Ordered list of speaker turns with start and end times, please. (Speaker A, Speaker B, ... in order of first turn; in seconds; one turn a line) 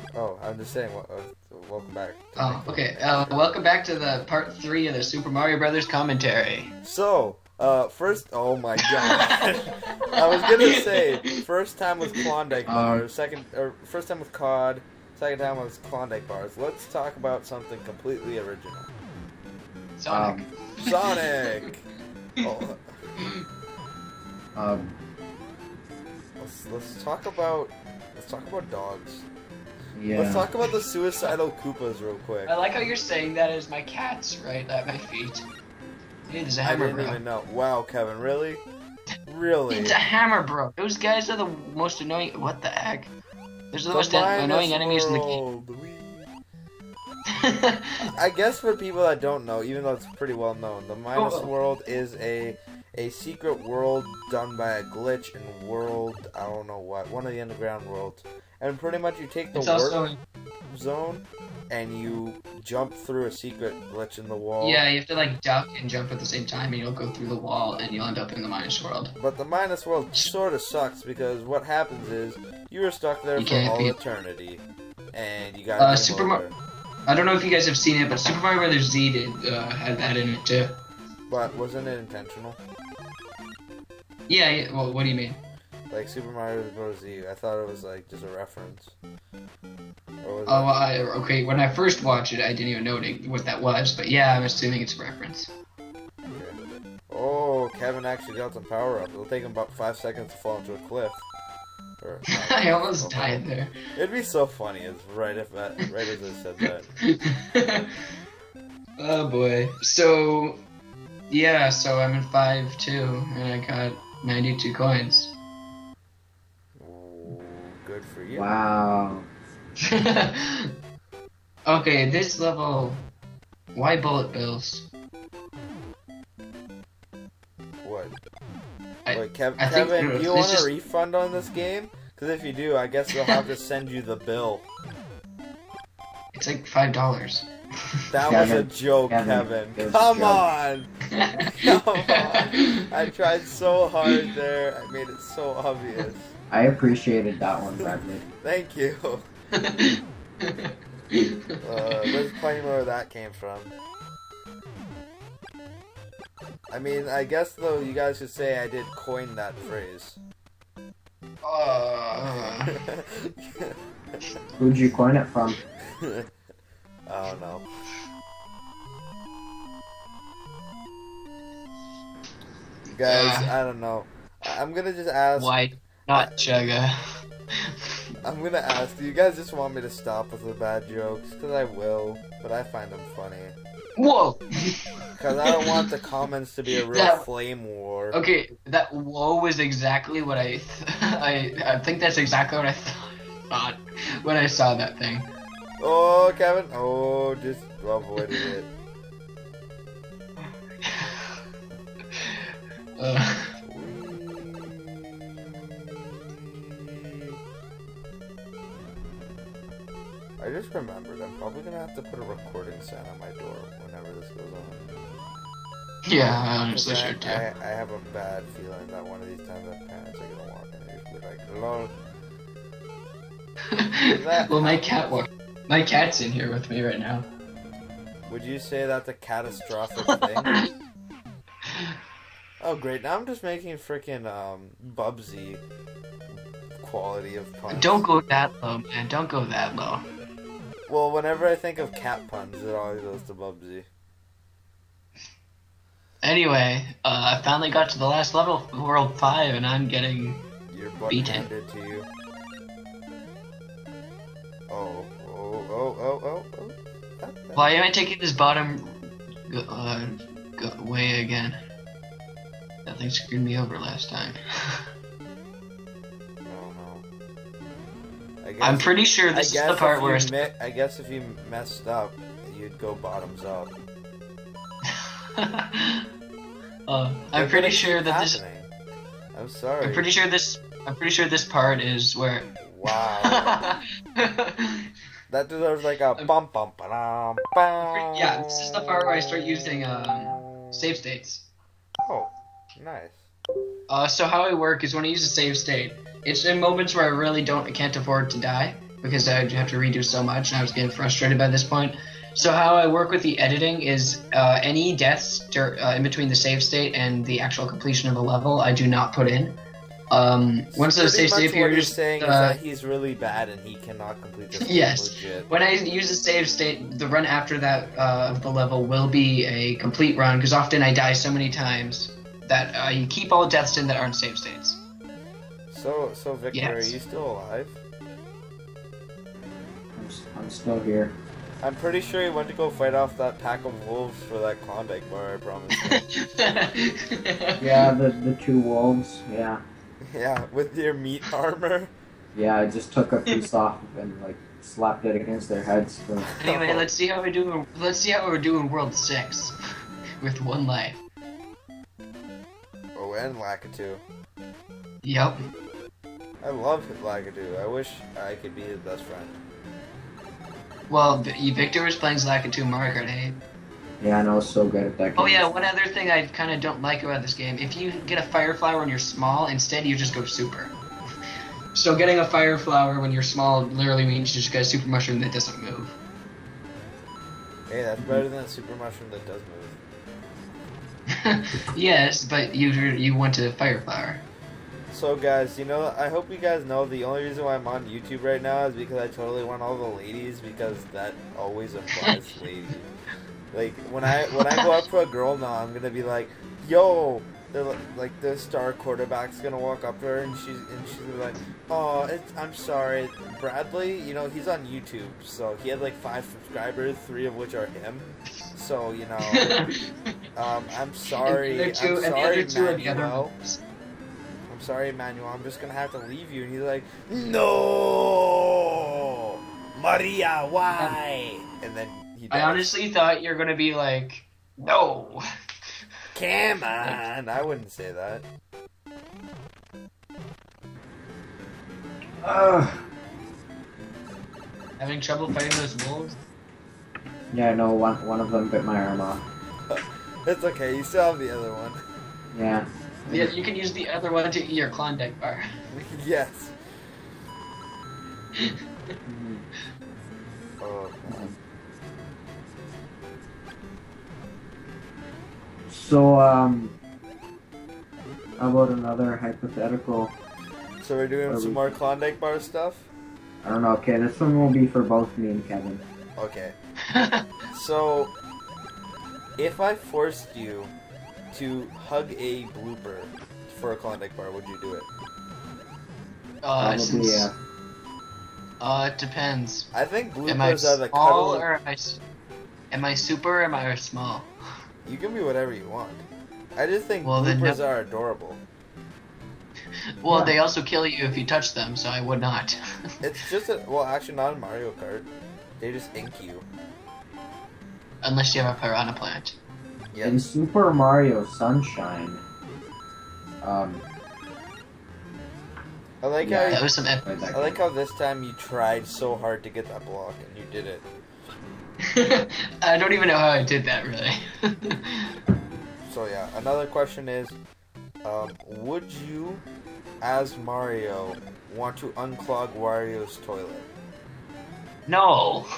Speaker A: 0.1-3.5
Speaker B: 2.4-6.7
Speaker A: 6.8-18.9
Speaker B: 8.8-9.2
Speaker B: 10.3-11.4
Speaker C: 12.7-13.0
Speaker B: 20.0-21.7
Speaker C: 20.1-20.4
Speaker A: 20.8-21.8
Speaker A: 22.4-23.0
Speaker C: 24.6-24.9
Speaker A: 26.4-29.3
Speaker C: 29.9-30.5
Speaker A: 30.1-32.5
Speaker B: 32.5-35.5
Speaker B: 36.3-37.2
Speaker A: 36.6-38.6
Speaker A: 39.2-40.0
Speaker B: 39.7-43.1
Speaker B: 43.7-45.4
Speaker A: 43.9-46.3
Speaker B: 47.4-47.9
Speaker A: 48.0-60.1
Speaker B: 51.1-51.5
Speaker B: 59.5-60.2
Speaker A: 60.7-64.8
Speaker B: 64.6-69.1
Speaker A: 69.2-76.6
Speaker B: 73.3-74.0
Speaker B: 75.8-76.4
Speaker B: 77.0-80.8
Speaker A: 81.3-82.6
Speaker B: 84.3-85.4
Speaker A: 85.9-88.9
Speaker A: 90.2-90.7
Speaker B: 90.5-95.5
Speaker A: 96.3-101.3
Speaker A: 102.0-106.9
Speaker B: 102.4-103.7
Speaker B: 107.1-107.9
Speaker B: 109.0-110.6
Speaker B: 111.3-115.3
Speaker A: 116.8-118.5
Speaker C: 118.3-119.2
Speaker B: 119.9-120.7
Speaker B: 121.7-123.0
Speaker B: 123.7-124.9
Speaker A: 127.8-128.2
Speaker B: 129.1-130.7
Speaker A: 129.1-134.7
Speaker B: 136.3-137.5
Speaker A: 138.1-140.9
Speaker C: 138.2-140.5
Speaker B: 141.1-141.5
Speaker A: 141.4-146.3
Speaker B: 142.1-142.8
Speaker C: 146.5-148.2
Speaker A: 147.8-149.3
Speaker B: 149.5-152.1
Speaker A: 151.6-153.7
Speaker A: 156.7-160.2
Speaker B: 161.4-162.7
Speaker A: 162.7-163.7
Speaker C: 164.6-165.6
Speaker A: 167.1-167.7
Speaker A: 172.9-176.8
Speaker B: 173.0-173.5
Speaker B: 175.3-176.9
Speaker A: 178.2-183.5
Speaker B: 184.0-184.8
Speaker A: 185.2-188.2
Speaker B: 186.9-187.2
Speaker B: 188.1-195.3
Speaker A: 195.8-198.7
Speaker B: 200.8-201.3
Speaker B: 203.0-203.5
Speaker A: 203.6-205.0
Speaker A: 210.4-214.8
Speaker B: 216.1-217.4
Speaker A: 216.7-221.9
Speaker B: 223.7-227.3
Speaker A: 224.1-225.2
Speaker A: 228.3-230.5
Speaker A: 232.6-235.6
Speaker A: 236.8-238.1
Speaker B: 237.7-240.0
Speaker A: 240.9-243.9
Speaker B: 246.2-250.4
Speaker A: 250.7-252.1
Speaker B: 251.1-251.5
Speaker A: 254.7-257.7
Speaker B: 257.5-261.6
Speaker B: 262.8-264.4
Speaker A: 266.4-267.1
Speaker A: 268.4-273.7
Speaker B: 268.6-270.5
Speaker B: 275.4-276.0
Speaker B: 276.9-278.4
Speaker A: 277.3-278.7
Speaker A: 279.3-280.1
Speaker B: 279.8-284.9
Speaker A: 282.6-283.7
Speaker A: 285.3-290.8
Speaker B: 287.8-291.5
Speaker A: 292.0-293.3
Speaker B: 293.9-309.6
Speaker B: 310.1-312.6
Speaker A: 310.7-315.5
Speaker B: 314.6-324.8
Speaker A: 325.7-327.8
Speaker B: 326.5-327.0
Speaker C: 329.9-331.1
Speaker A: 331.6-336.0
Speaker B: 335.8-337.9
Speaker C: 337.6-339.6
Speaker A: 340.1-341.9
Speaker C: 342.3-346.3
Speaker B: 346.4-349.6
Speaker A: 346.4-346.9
Speaker B: 350.2-351.0
Speaker A: 352.9-354.0
Speaker B: 355.0-355.4
Speaker A: 356.4-359.4
Speaker B: 360.9-363.4
Speaker C: 364.0-365.5
Speaker B: 365.1-370.7
Speaker B: 371.7-376.0
Speaker A: 377.7-379.8
Speaker C: 378.0-378.2
Speaker B: 381.2-384.2
Speaker A: 384.9-392.9
Speaker A: 393.5-409.6
Speaker B: 409.3-409.9
Speaker A: 410.3-413.3
Speaker B: 411.2-413.6
Speaker A: 414.5-418.7
Speaker A: 419.7-422.8
Speaker B: 422.3-425.2
Speaker A: 426.1-428.2
Speaker C: 432.2-432.8
Speaker B: 434.8-436.2
Speaker C: 437.3-439.2
Speaker A: 439.7-441.8
Speaker C: 442.3-443.3
Speaker B: 443.1-445.4
Speaker A: 445.7-446.6
Speaker C: 449.1-449.4
Speaker A: 450.6-451.4
Speaker C: 451.1-451.3
Speaker C: 455.7-456.8
Speaker C: 458.4-460.1
Speaker A: 460.8-462.9
Speaker C: 461.3-461.7
Speaker C: 463.4-465.8
Speaker A: 466.2-466.6
Speaker B: 466.9-467.2
Speaker A: 467.5-468.1
Speaker A: 469.4-470.7
Speaker A: 471.3-474.9
Speaker B: 476.4-477.3
Speaker C: 476.6-477.3
Speaker B: 478.6-479.7
Speaker A: 479.7-481.5
Speaker B: 480.2-482.0
Speaker B: 482.7-484.3
Speaker A: 484.8-488.4
Speaker B: 487.0-487.6
Speaker B: 490.0-492.6
Speaker C: 490.1-490.3
Speaker A: 493.0-496.4
Speaker B: 498.0-499.4
Speaker A: 499.9-500.2
Speaker C: 500.0-502.2
Speaker C: 503.4-503.8
Speaker A: 506.0-506.6
Speaker C: 506.2-507.6
Speaker B: 506.5-507.0
Speaker A: 507.3-510.9
Speaker B: 511.9-514.1
Speaker A: 515.8-517.4
Speaker A: 518.0-519.4
Speaker A: 520.0-523.7
Speaker B: 524.9-525.5